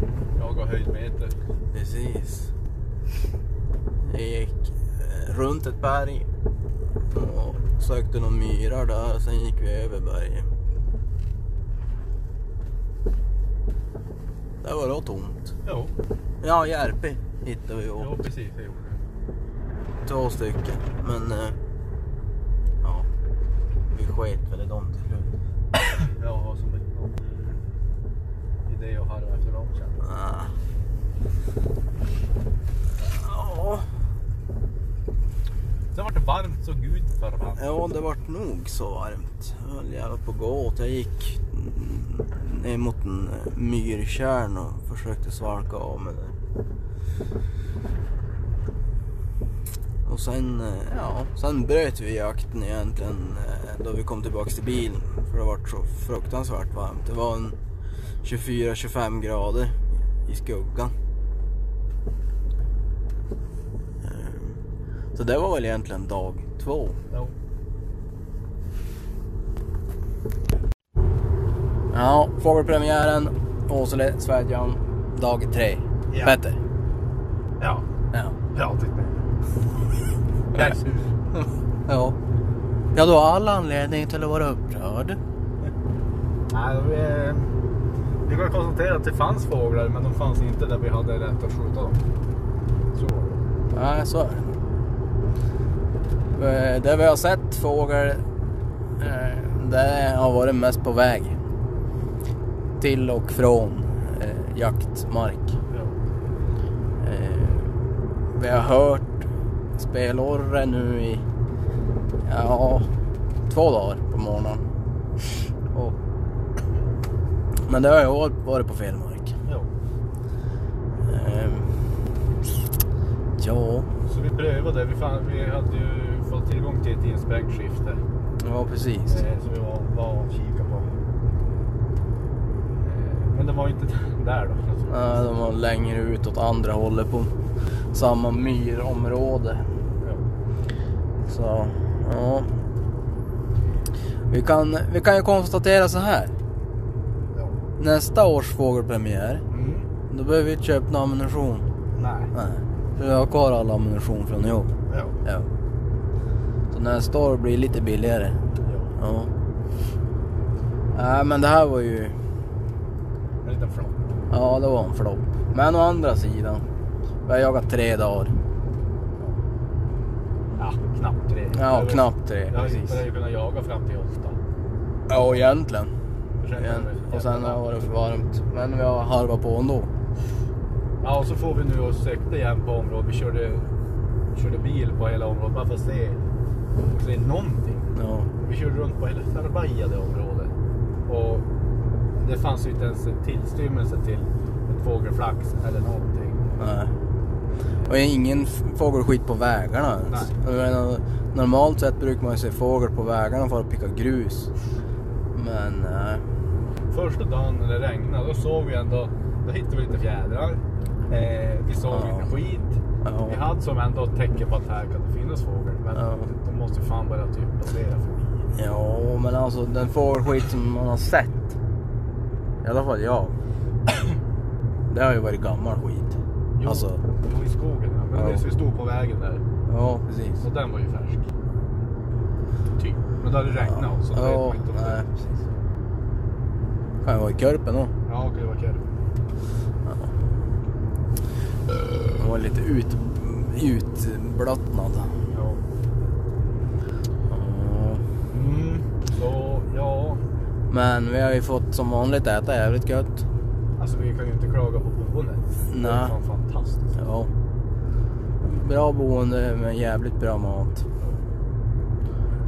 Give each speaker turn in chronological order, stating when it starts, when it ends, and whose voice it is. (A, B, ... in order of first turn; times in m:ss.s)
0:00.4-0:01.4 A
0:01.7-0:02.5 B
0:04.0-0:06.3 B
0:07.1-0:10.5 B
0:14.6-0:15.6 B
0:15.6-0:15.9 A
0:16.4-0:18.2 B
0:18.0-0:19.0 A
0:20.0-0:21.6 B
0:22.8-0:23.1 B
0:23.9-0:25.3 B
0:25.8-0:27.4 A
0:28.7-0:30.0 A
0:30.0-0:30.5 B
0:33.0-0:33.9 B
0:35.9-0:37.7 A
0:37.6-0:46.4 B
0:50.0-0:57.6 B
0:58.2-1:01.0 B
1:04.0-1:04.6 B
1:05.2-1:07.0 B
1:11.9-1:16.6 B
1:16.1-1:16.4 A
1:17.6-1:17.9 A
1:18.1-1:18.4 B
1:18.5-1:19.3 A
1:20.5-1:21.2 A
1:21.9-1:22.2 B
1:22.9-1:25.2 B
1:26.5-1:27.6 A
1:28.3-1:32.0 A
1:32.9-1:33.4 A
1:33.7-1:34.6 B
1:36.4-1:38.2 B
1:39.0-1:41.4 B
1:42.8-1:45.6 B
1:45.7-1:46.0 A
1:47.0-1:47.7 B
1:48.3-1:51.2 B
1:52.2-1:52.9 B
1:53.5-1:54.6 B
1:55.7-1:56.0 B
1:57.7-1:59.4 B
2:01.0-2:01.9 B
2:03.4-2:03.9 B
2:04.1-2:08.0 A
2:08.4-2:09.2 B
2:09.1-2:10.9 A
2:12.8-2:15.4 A
2:14.9-2:17.3 B
2:17.9-2:19.7 B
2:21.3-2:22.5 B
2:24.3-2:26.3 B
2:27.3-2:27.6 A
2:27.8-2:29.4 B
2:29.5-2:29.9 A
2:30.1-2:31.7 B
2:32.0-2:32.3 A
2:32.3-2:34.7 B
2:34.9-2:35.2 A
2:35.2-2:35.5 B
2:36.7-2:38.4 B
2:38.6-2:38.9 A
2:39.0-2:39.3 B
2:40.9-2:42.2 B
2:43.4-2:44.0 A
2:44.3-2:46.6 B
2:47.2-2:48.4 B
2:50.6-2:54.4 A
2:51.5-2:53.0 B
2:55.1-2:55.9 B
2:55.1-2:55.4 A
2:56.4-2:57.8 A
2:56.6-2:59.9 B
3:01.0-3:03.7 A
3:04.3-3:06.2 A
3:06.9-3:10.5 A
3:08.0-3:08.3 B
3:11.1-3:11.5 A
3:12.2-3:16.6 A
3:16.6-3:16.9 B
3:17.9-3:24.5 B
3:20.1-3:20.3 A
3:25.3-3:26.2 B
3:26.9-3:38.5 A
3:31.9-3:32.3 B
3:33.0-3:33.4 B
3:35.9-3:36.3 B
3:38.6-3:41.5 B
3:42.6-3:43.4 B
3:44.9-3:47.0 B
3:46.6-3:49.4 A
3:48.2-3:48.4 B
3:49.7-3:50.4 B
3:50.4-3:51.3 A
3:52.8-3:55.4 A
3:53.6-3:55.1 B
3:57.0-3:57.9 B
3:58.1-3:58.8 A
4:02.1-4:05.2 B
4:05.3-4:05.6 A
4:07.3-4:08.0 B
4:08.3-4:10.2 A
4:10.7-4:13.2 B
4:13.8-4:17.0 A
4:15.7-4:16.1 B
4:17.0-4:17.3 B
4:18.4-4:20.8 B